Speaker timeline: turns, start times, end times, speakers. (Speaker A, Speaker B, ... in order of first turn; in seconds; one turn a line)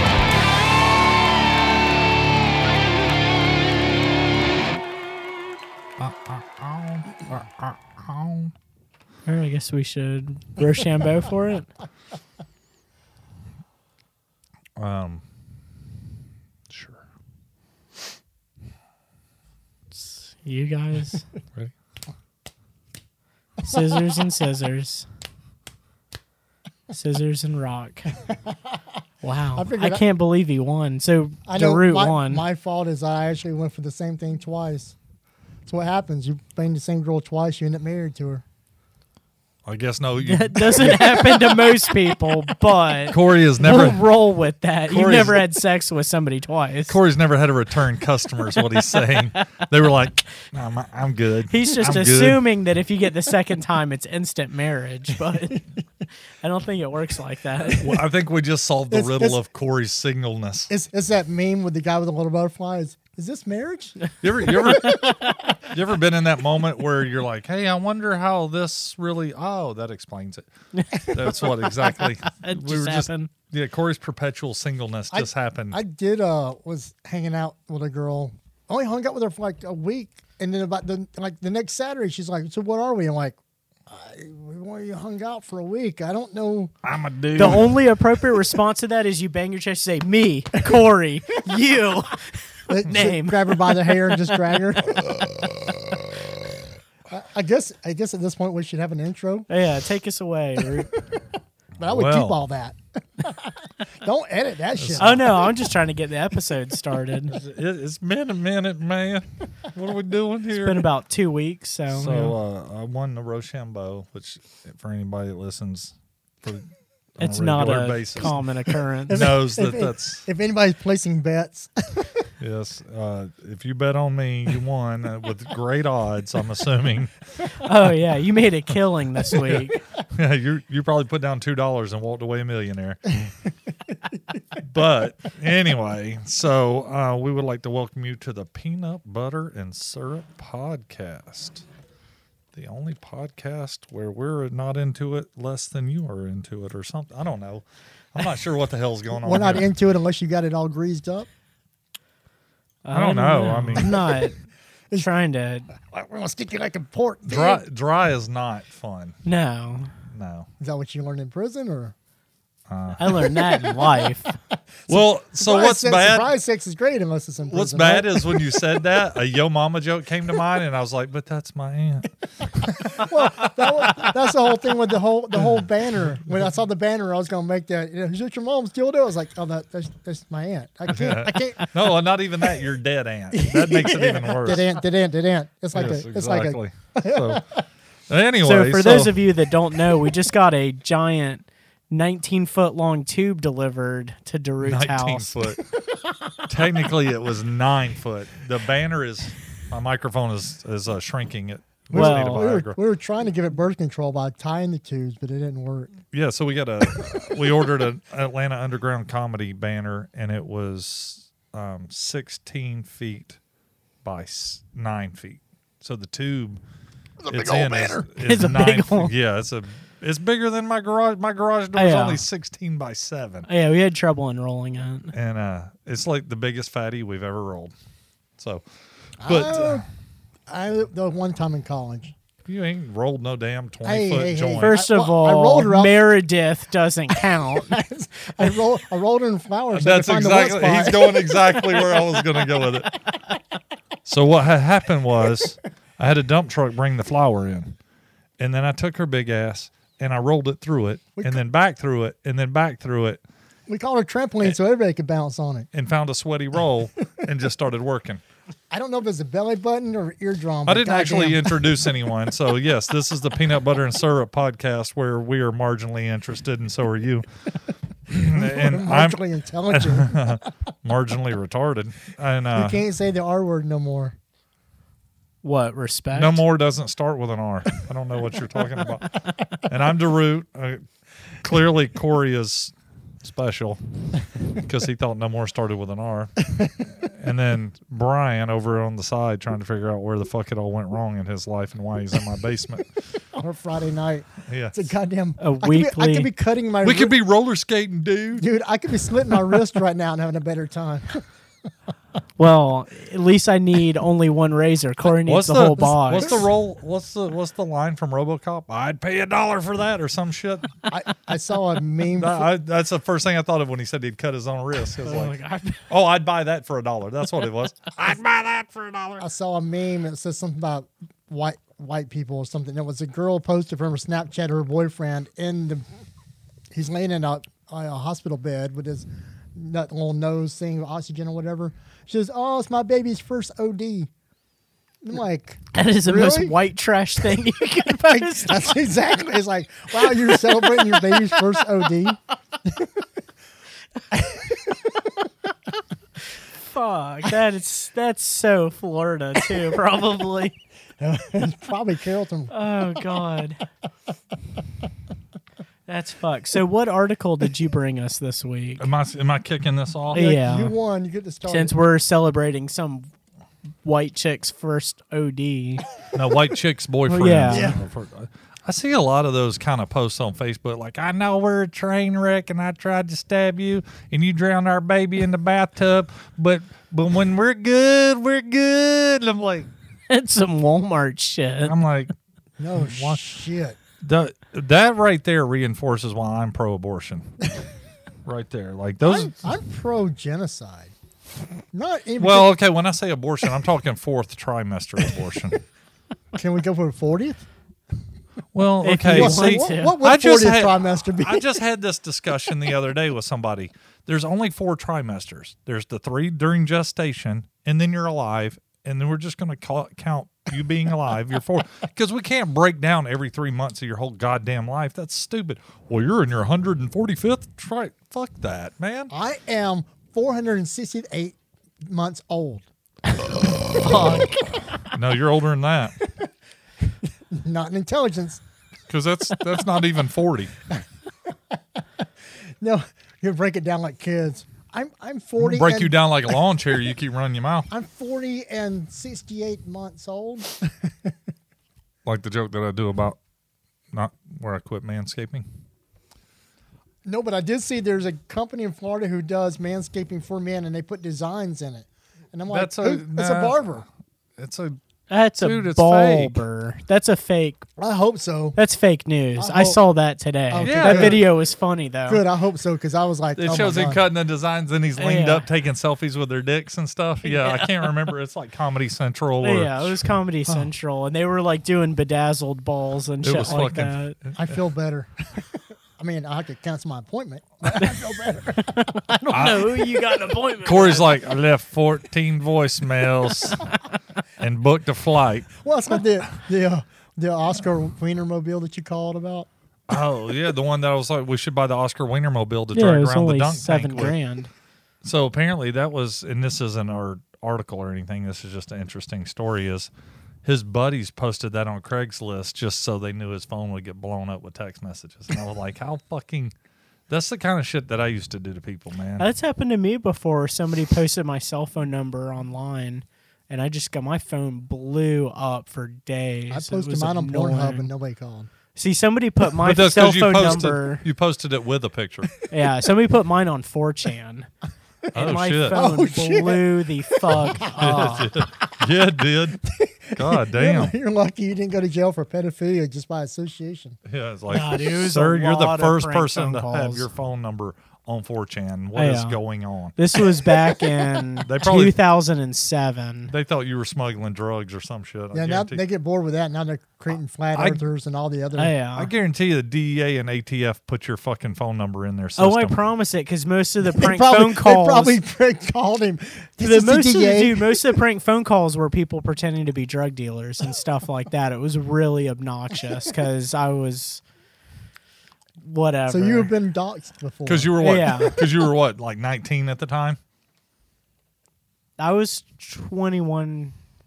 Speaker A: 6.0-8.5
Speaker B: 9.2-11.7
Speaker A: 14.8-15.2
Speaker A: 16.7-17.0
Speaker B: 19.9-21.2
Speaker B: 23.6-25.1
Speaker C: 23.6-24.1
Speaker B: 26.9-28.1
Speaker C: 28.2-28.5
Speaker B: 29.2-32.4
Speaker C: 29.5-30.0
Speaker C: 31.4-35.0
Speaker C: 35.6-38.4
Speaker A: 39.6-41.7
Speaker B: 40.2-47.0
Speaker A: 43.1-44.0
Speaker A: 44.9-45.4
Speaker A: 46.9-52.4
Speaker B: 51.5-55.7
Speaker B: 56.4-57.9
Speaker A: 57.8-60.7
Speaker C: 58.9-59.4
Speaker C: 60.7-65.6
Speaker A: 64.2-70.5
Speaker B: 64.8-65.2
Speaker B: 70.7-73.3
Speaker A: 71.1-75.8
Speaker C: 71.1-71.8
Speaker C: 75.1-83.4
Speaker C: 83.9-86.7
Speaker A: 86.8-87.8
Speaker B: 87.3-94.5
Speaker C: 92.7-95.1
Speaker A: 94.9-96.6
Speaker C: 97.1-99.5
Speaker B: 99.5-101.0
Speaker C: 101.8-105.5
Speaker A: 101.8-102.4
Speaker A: 104.8-105.2
Speaker B: 105.0-107.4
Speaker A: 107.3-110.9
Speaker B: 110.5-112.3
Speaker A: 111.9-118.4
Speaker B: 117.2-119.3
Speaker C: 119.1-122.1
Speaker A: 119.1-120.2
Speaker A: 122.4-127.5
Speaker B: 127.6-129.8
Speaker A: 129.3-133.3
Speaker A: 134.6-141.7
Speaker A: 142.5-149.7
Speaker C: 149.1-151.3
Speaker B: 152.8-154.3
Speaker A: 152.9-153.9
Speaker C: 153.7-154.3
Speaker B: 155.0-155.7
Speaker C: 155.7-157.6
Speaker A: 157.2-159.2
Speaker B: 159.2-159.9
Speaker A: 160.1-160.5
Speaker C: 160.6-161.9
Speaker A: 162.7-163.2
Speaker B: 163.0-164.3
Speaker C: 163.3-164.1
Speaker C: 164.8-168.7
Speaker A: 164.9-166.3
Speaker A: 167.5-174.0
Speaker C: 172.9-182.0
Speaker A: 180.9-184.7
Speaker C: 183.3-187.6
Speaker A: 185.7-187.5
Speaker A: 188.1-189.2
Speaker B: 188.4-195.4
Speaker A: 194.6-195.6
Speaker C: 195.9-196.4
Speaker A: 196.5-202.8
Speaker C: 201.9-205.9
Speaker B: 201.9-202.4
Speaker A: 206.1-213.4
Speaker A: 214.0-216.6
Speaker C: 217.2-218.1
Speaker A: 217.3-223.5
Speaker B: 218.2-219.1
Speaker B: 221.8-222.2
Speaker B: 223.4-225.1
Speaker A: 225.1-227.7
Speaker A: 228.4-228.6
Speaker C: 229.2-229.8
Speaker A: 229.2-229.8
Speaker C: 230.5-232.1
Speaker A: 232.4-234.8
Speaker C: 233.8-236.1
Speaker B: 234.6-237.8
Speaker C: 237.2-242.7
Speaker A: 239.7-243.0
Speaker A: 244.0-247.8
Speaker A: 248.4-253.2
Speaker C: 251.2-251.4
Speaker C: 253.7-255.7
Speaker A: 255.7-258.2
Speaker C: 258.7-261.8
Speaker A: 260.6-267.2
Speaker A: 268.1-272.8
Speaker C: 268.1-270.5
Speaker C: 272.5-274.1
Speaker B: 275.4-276.4
Speaker A: 276.1-280.8
Speaker A: 281.4-283.8
Speaker A: 284.5-286.3
Speaker C: 286.5-286.9
Speaker A: 286.9-292.9
Speaker C: 293.3-297.1
Speaker A: 294.5-294.9
Speaker B: 295.4-296.3
Speaker A: 296.8-298.4
Speaker C: 298.4-301.2
Speaker B: 302.4-306.4
Speaker A: 305.0-310.7
Speaker C: 310.9-312.5
Speaker A: 312.1-315.3
Speaker B: 315.0-315.8
Speaker A: 315.9-319.3
Speaker C: 319.2-325.8
Speaker C: 326.7-334.1
Speaker C: 335.0-336.6
Speaker B: 335.7-338.8
Speaker C: 338.0-342.9
Speaker B: 339.9-341.5
Speaker C: 344.1-344.9
Speaker B: 346.4-350.6
Speaker C: 351.0-353.1
Speaker B: 352.5-353.6
Speaker B: 355.9-358.9
Speaker A: 358.8-360.3
Speaker C: 360.1-361.7
Speaker B: 360.1-360.7
Speaker B: 361.4-363.1
Speaker B: 363.8-365.9
Speaker A: 366.1-379.7
Speaker B: 367.1-367.7
Speaker C: 367.5-367.8
Speaker B: 380.1-381.8
Speaker A: 381.6-382.1
Speaker C: 382.6-383.8
Speaker A: 382.8-383.2
Speaker A: 384.0-387.4
Speaker A: 388.2-389.4
Speaker C: 389.0-390.9
Speaker C: 391.7-392.6
Speaker A: 392.2-395.6
Speaker C: 396.3-397.4
Speaker A: 398.5-419.1
Speaker B: 398.8-400.0
Speaker C: 399.0-401.6
Speaker C: 419.1-422.6
Speaker C: 423.6-424.9
Speaker A: 424.8-425.9
Speaker C: 426.0-426.3
Speaker C: 427.3-428.4
Speaker A: 428.9-430.5
Speaker C: 432.6-436.4
Speaker A: 435.4-437.7
Speaker C: 437.7-441.1
Speaker A: 442.0-443.2
Speaker A: 443.9-445.4
Speaker C: 447.0-453.8
Speaker A: 452.5-453.8
Speaker A: 454.4-454.8
Speaker B: 455.1-457.6
Speaker A: 455.4-456.4
Speaker C: 457.8-458.6
Speaker B: 458.6-462.2
Speaker C: 459.4-459.8
Speaker C: 460.5-461.3
Speaker A: 460.6-461.2
Speaker C: 462.1-464.0
Speaker A: 463.4-470.1
Speaker B: 465.0-465.4
Speaker B: 467.2-467.9
Speaker B: 469.4-474.2
Speaker A: 473.2-474.6
Speaker C: 474.3-479.9
Speaker B: 477.7-481.2
Speaker A: 479.3-479.7
Speaker A: 480.6-483.7
Speaker A: 484.4-485.5
Speaker C: 485.6-489.5
Speaker A: 489.9-494.1
Speaker B: 492.7-494.5
Speaker A: 495.0-499.9
Speaker A: 500.4-506.5
Speaker A: 507.1-509.2
Speaker B: 509.2-517.9
Speaker C: 516.5-518.5
Speaker B: 518.7-521.0
Speaker A: 519.6-522.4
Speaker B: 522.5-524.5
Speaker B: 525.1-528.3
Speaker A: 525.1-525.8
Speaker C: 525.7-528.6
Speaker A: 527.5-529.6
Speaker C: 529.6-534.0
Speaker A: 530.1-531.0
Speaker A: 534.0-539.9
Speaker B: 534.5-537.1
Speaker B: 538.9-539.4
Speaker B: 540.0-543.3
Speaker A: 541.4-542.0
Speaker A: 543.3-545.8
Speaker C: 545.3-548.7
Speaker A: 547.5-547.8
Speaker B: 548.5-549.1
Speaker A: 548.9-552.8
Speaker B: 552.4-555.2
Speaker C: 553.8-557.9
Speaker B: 556.6-564.2
Speaker B: 565.6-566.5
Speaker C: 566.1-567.8
Speaker A: 567.5-570.2
Speaker B: 567.8-568.4
Speaker B: 572.0-573.8